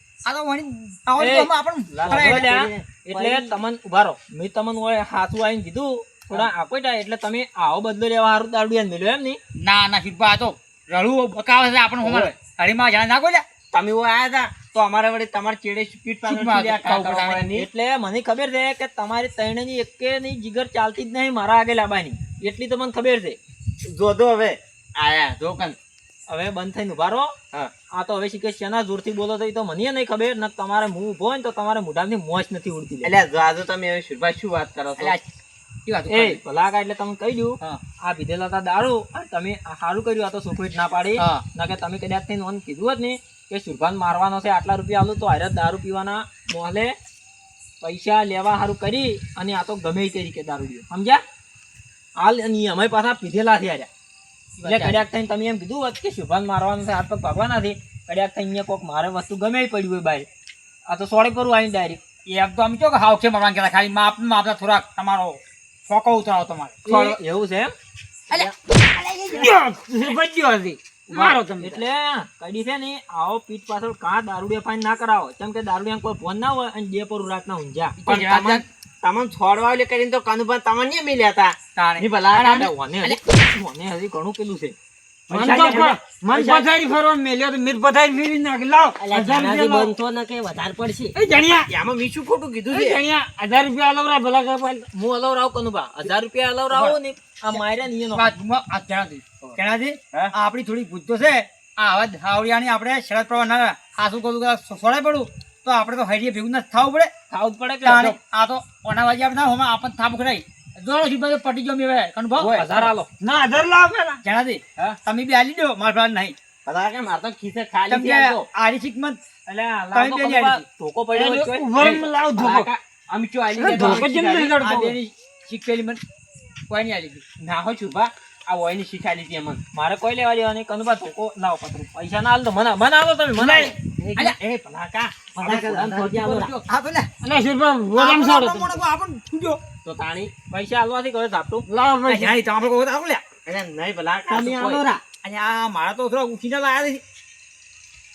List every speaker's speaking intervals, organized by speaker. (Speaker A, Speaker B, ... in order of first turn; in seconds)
Speaker A: 0.3-2.5, 9.6-13.4, 16.2-17.4, 25.0-25.8, 35.0-35.3, 35.9-36.4, 41.2-41.4, 54.6-55.0, 62.3-67.2, 68.3-69.5, 78.0-78.7, 81.8-83.2, 85.3-85.9, 96.7-97.0, 98.1-107.1, 107.8-112.9, 114.2-116.3, 117.9-119.2, 119.9-120.6, 123.6-126.0, 126.7-127.2, 133.4-134.4, 136.0-137.1, 137.9-139.6, 142.1-143.2, 144.5-147.0
Speaker B: 1.2-9.4, 14.1-14.5, 17.5-23.4, 26.3-27.3, 27.9-33.1, 36.1-47.0, 47.8-51.2, 52.2-53.9, 54.6-60.3, 60.9-62.0, 66.9-67.7, 71.1-78.1, 79.0-81.4, 82.3-84.8, 85.4-86.4, 94.9-98.3, 107.3-108.2, 112.4-113.1, 116.8-117.2, 119.5-122.1, 122.7-123.6, 129.7-133.8, 140.0-141.7
Speaker C: 2.0-3.5, 12.0-12.3, 13.7-17.7, 23.8-24.6, 33.0-35.2, 78.1-78.6, 79.4-80.1, 80.7-82.7, 91.7-93.0, 116.7-118.4, 121.8-122.7, 123.6-124.1, 127.5-129.6, 134.2-136.1, 139.9-140.3, 143.5-144.8
Speaker D: 69.3-71.8, 85.3-89.9, 91.2-91.7, 92.7-94.9, 113.2-114.2, 121.1-122.7, 123.6-125.0, 137.2-138.8, 141.7-142.3
Speaker E: 89.0-91.2, 134.0-134.3, 135.3-136.5, 144.3-145.0